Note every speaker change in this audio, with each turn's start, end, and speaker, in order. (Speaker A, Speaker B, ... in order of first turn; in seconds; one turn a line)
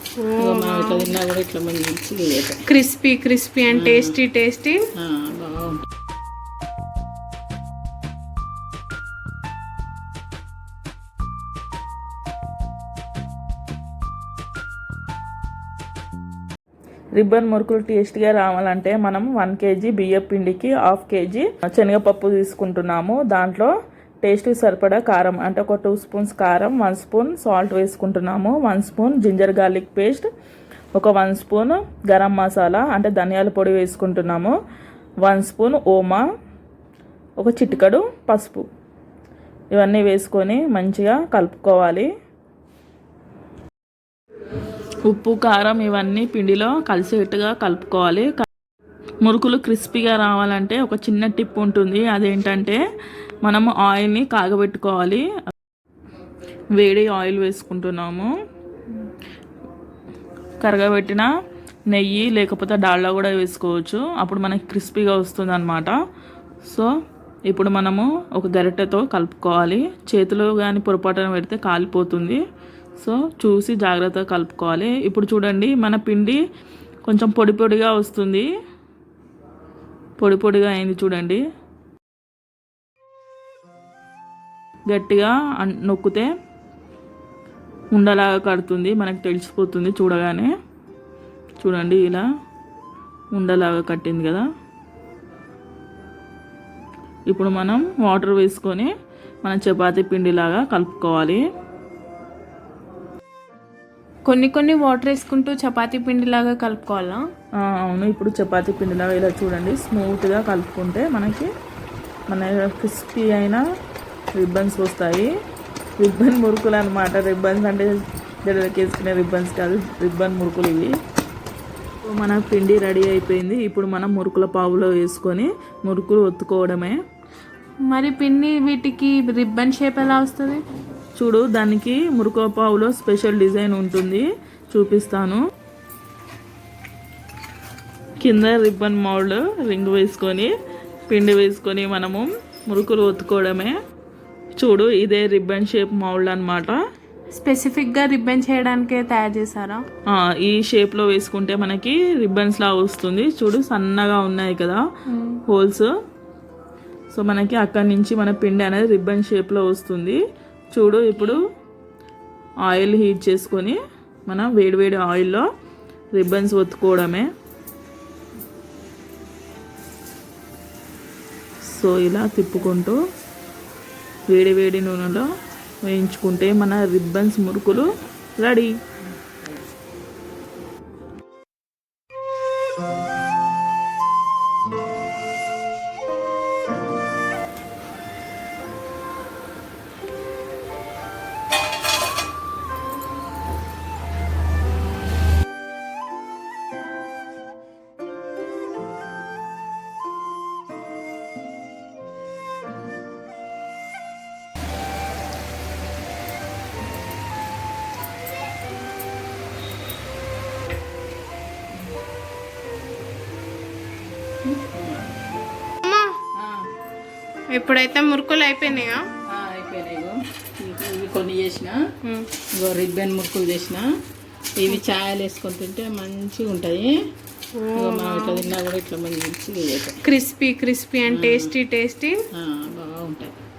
Speaker A: 0.2-1.1
Speaker B: 0.4-2.6
Speaker A: 2.7-4.9
Speaker B: 3.7-4.1
Speaker B: 5.0-5.8
Speaker C: 17.2-23.7
Speaker C: 24.2-30.2
Speaker C: 30.9-34.5
Speaker C: 35.2-36.2
Speaker C: 37.4-38.6
Speaker C: 39.7-42.1
Speaker C: 45.1-48.5
Speaker C: 49.2-52.8
Speaker C: 53.4-55.2
Speaker C: 56.8-58.3
Speaker C: 60.6-61.3
Speaker C: 61.9-65.9
Speaker C: 67.5-72.4
Speaker C: 73.0-76.4
Speaker C: 77.1-78.5
Speaker C: 80.2-81.4
Speaker C: 84.9-86.3
Speaker C: 87.9-90.5
Speaker C: 91.6-92.2
Speaker C: 93.3-94.4
Speaker C: 97.3-98.9
Speaker C: 99.4-101.4
Speaker A: 104.3-107.2
Speaker C: 107.6-111.5
Speaker C: 112.3-113.6
Speaker C: 114.4-115.3
Speaker C: 116.0-121.0
Speaker C: 122.0-127.0
Speaker A: 127.9-130.6
Speaker C: 131.2-135.4
Speaker C: 138.2-140.5
Speaker C: 141.1-143.7
Speaker C: 144.6-146.8
Speaker A: 147.3-149.8
Speaker C: 150.1-154.8
Speaker A: 155.1-155.4
Speaker C: 155.5-155.9
Speaker C: 157.1-160.2
Speaker C: 160.7-161.4
Speaker C: 162.6-165.4
Speaker C: 166.1-167.3
Speaker C: 171.7-173.0
Speaker C: 174.3-175.2
Speaker C: 175.8-177.9
Speaker C: 178.4-178.7
Speaker B: 214.4-215.0
Speaker A: 215.8-216.2
Speaker B: 216.4-216.6
Speaker A: 217.5-219.1
Speaker B: 219.3-221.8
Speaker B: 222.6-223.8
Speaker B: 224.6-226.9
Speaker A: 227.5-228.5
Speaker B: 227.7-229.9
Speaker A: 230.0-232.2
Speaker B: 231.1-231.5
Speaker B: 232.3-233.3